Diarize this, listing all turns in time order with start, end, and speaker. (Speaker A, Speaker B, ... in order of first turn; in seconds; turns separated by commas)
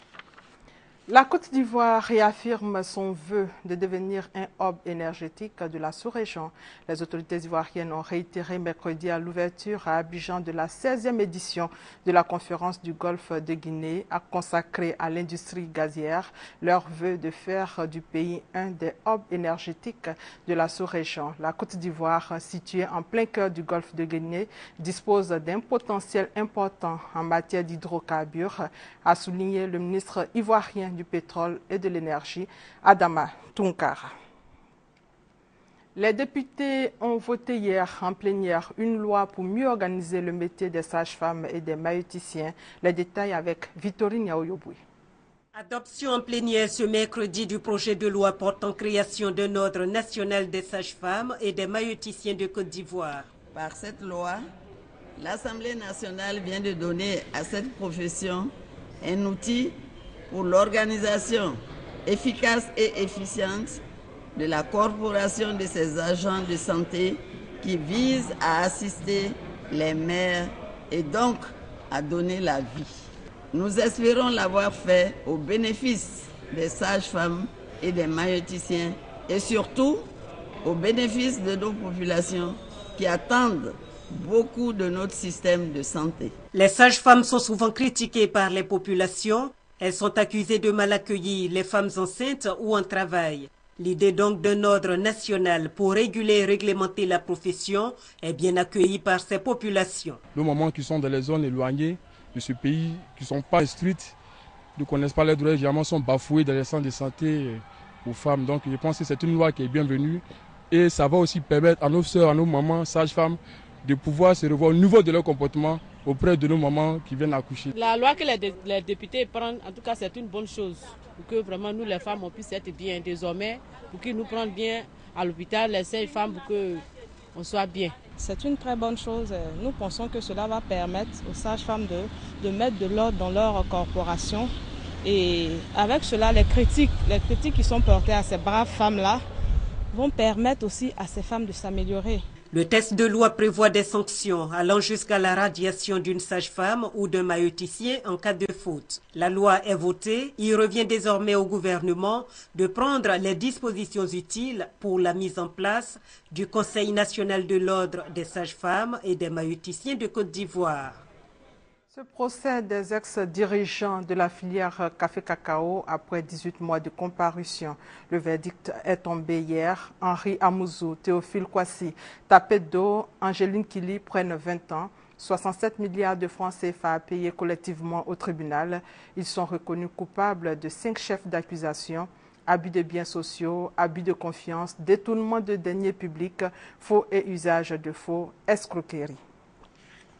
Speaker A: 1.1-34.1, Speaker A: 36.0-44.8, Speaker B: 45.5-53.3, Speaker C: 53.5-54.4, Speaker C: 55.2-59.8, Speaker C: 60.3-63.8, Speaker C: 64.3-80.1, Speaker C: 80.6-86.3, Speaker B: 86.5-100.2, Speaker D: 100.3-104.2, Speaker D: 104.8-117.7, Speaker E: 117.8-126.8, Speaker E: 127.3-127.9, Speaker F: 128.2-134.5, Speaker F: 135.0-139.2, Speaker F: 139.9-142.2, Speaker B: 142.5-161.0, Speaker A: 161.9-189.2